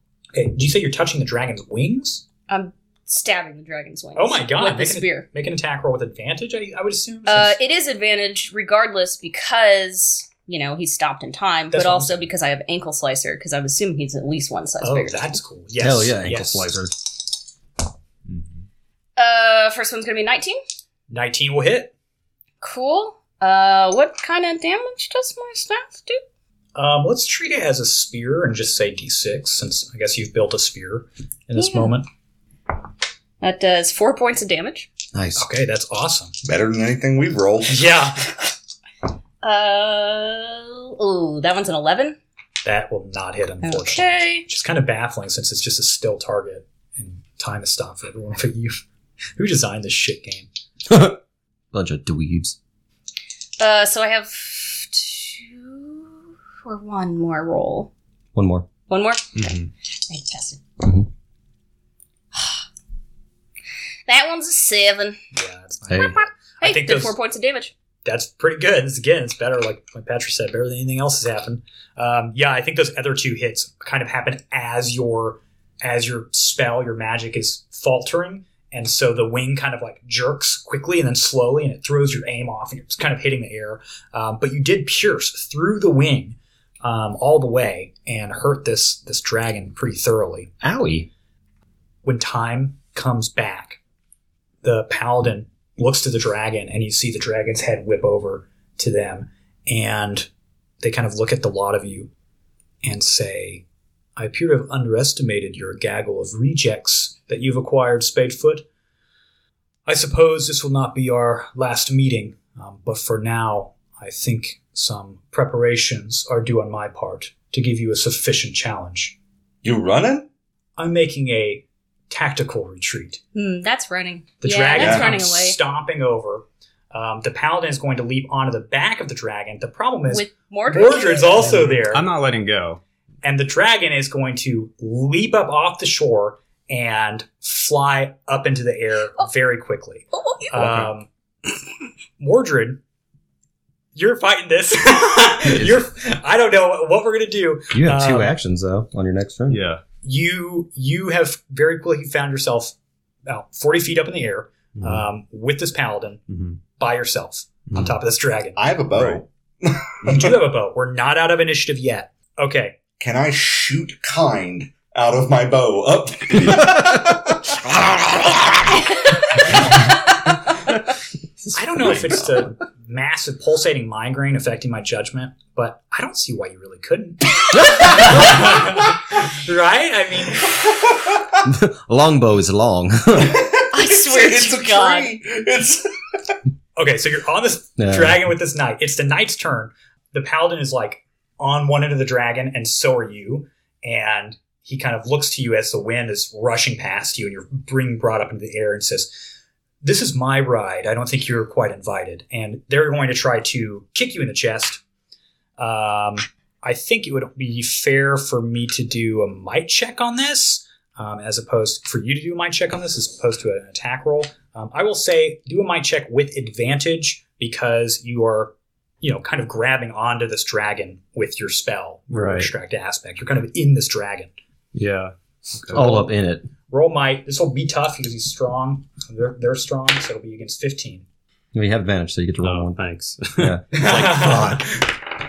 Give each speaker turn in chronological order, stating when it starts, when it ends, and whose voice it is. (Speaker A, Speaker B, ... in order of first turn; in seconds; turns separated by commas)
Speaker A: 0.3-2.2, Speaker B: 2.5-5.3, Speaker A: 4.2-7.6, Speaker B: 7.3-15.3, Speaker A: 11.7-12.3, Speaker A: 14.8-16.7, Speaker C: 15.8-16.9, Speaker B: 19.2-20.6, Speaker A: 21.1-21.9, Speaker B: 22.6-26.2, Speaker A: 26.8-32.1, Speaker B: 31.6-31.9, Speaker B: 33.4-34.9, Speaker C: 35.1-35.5, Speaker A: 35.4-36.3, Speaker D: 36.4-37.9, Speaker A: 37.7-38.3, Speaker B: 39.4-42.2, Speaker A: 42.6-48.8, Speaker B: 43.6-44.5, Speaker A: 49.4-50.5, Speaker C: 50.9-51.2, Speaker C: 51.7-52.6, Speaker B: 53.6-57.9, Speaker C: 58.4-58.7, Speaker B: 58.9-60.6, Speaker E: 59.4-59.7, Speaker C: 60.8-61.1, Speaker B: 62.3-62.6, Speaker B: 64.1-65.2, Speaker A: 65.3-67.2, Speaker C: 65.9-66.2, Speaker B: 65.9-67.7, Speaker A: 68.0-90.5, Speaker C: 90.6-91.1, Speaker A: 92.0-93.8, Speaker A: 94.6-100.3, Speaker A: 100.8-102.1, Speaker A: 102.8-103.6, Speaker A: 104.2-108.7, Speaker A: 109.9-119.2, Speaker D: 119.6-120.3, Speaker A: 120.8-123.2, Speaker B: 123.3-125.6, Speaker A: 124.4-132.1, Speaker D: 124.8-125.1, Speaker B: 130.1-131.5, Speaker E: 131.4-132.8, Speaker A: 133.2-141.1, Speaker B: 140.1-140.5, Speaker E: 140.6-140.9, Speaker A: 142.2-142.8, Speaker A: 143.9-148.3, Speaker C: 147.7-149.6, Speaker E: 149.5-149.8, Speaker A: 150.0-152.8, Speaker A: 153.3-156.2, Speaker E: 154.8-155.0, Speaker E: 156.3-156.6, Speaker A: 156.8-158.6, Speaker D: 158.6-160.3, Speaker E: 158.9-159.2, Speaker A: 160.0-162.8, Speaker D: 163.0-167.7, Speaker E: 171.4-172.5, Speaker A: 171.5-180.6, Speaker C: 177.5-178.3, Speaker D: 180.5-181.4, Speaker C: 181.4-183.5, Speaker D: 183.2-185.9, Speaker B: 183.7-185.1, Speaker A: 186.8-199.2, Speaker C: 187.8-188.2, Speaker A: 199.8-204.8, Speaker A: 205.6-224.3, Speaker E: 222.1-222.5, Speaker E: 224.7-225.8, Speaker A: 225.7-226.2, Speaker C: 225.7-226.5, Speaker A: 226.7-231.1, Speaker C: 231.5-232.8, Speaker E: 232.4-233.6, Speaker C: 233.4-234.7, Speaker A: 233.7-234.9